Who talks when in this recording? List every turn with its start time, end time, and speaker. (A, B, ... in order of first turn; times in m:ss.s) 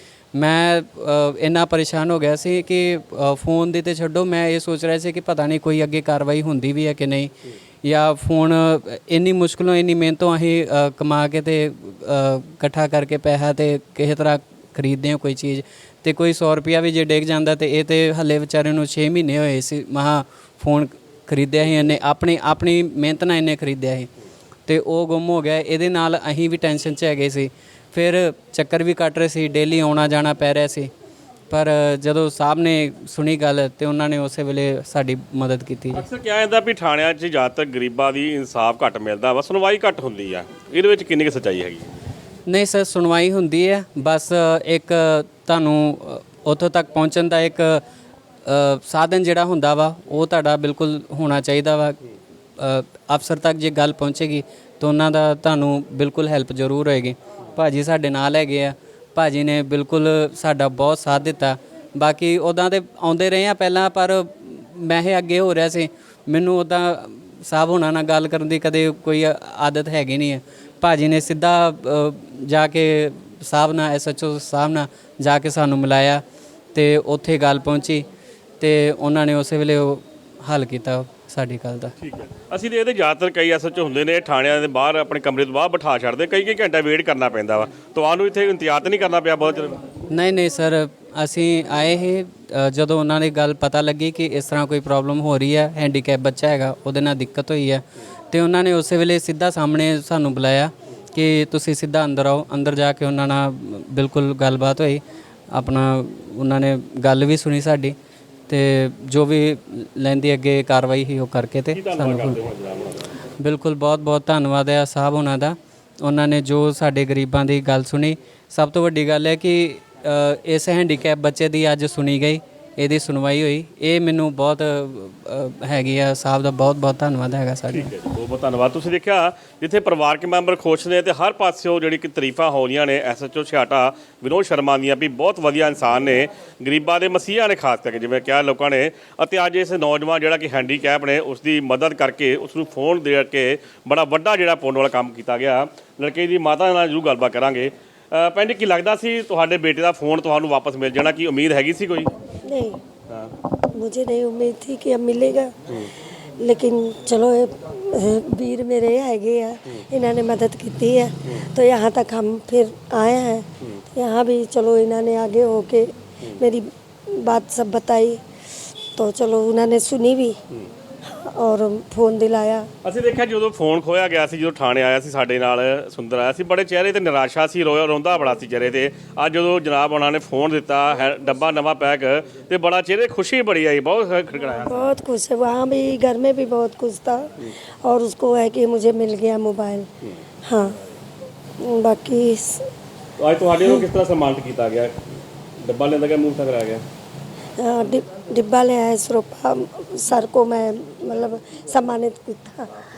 0:00.3-0:07.3 A
0:07.8-0:24.1 A
0:24.6-0:30.9 A
0:31.5-0:36.0 A
0:35.9-0:41.9 B
0:42.5-0:47.8 A
0:48.4-0:52.0 A
0:52.6-1:16.2 A
1:16.7-1:18.0 A
1:18.6-1:21.9 A
1:22.0-1:29.8 B
1:30.1-1:47.9 A
1:48.5-1:52.4 A
1:51.7-1:53.1 B
1:53.4-2:07.9 A
2:07.7-2:32.1 B
2:32.4-2:32.8 C
2:33.7-2:35.5 C
2:36.0-2:48.2 C
2:48.9-2:50.4 C
2:51.0-2:52.7 C
2:52.8-3:05.0 B
3:04.7-3:09.9 C
3:10.4-3:10.7 C
3:11.6-3:12.7 C
3:13.2-3:15.0 B
3:15.6-3:16.8 B
3:17.6-3:22.7 C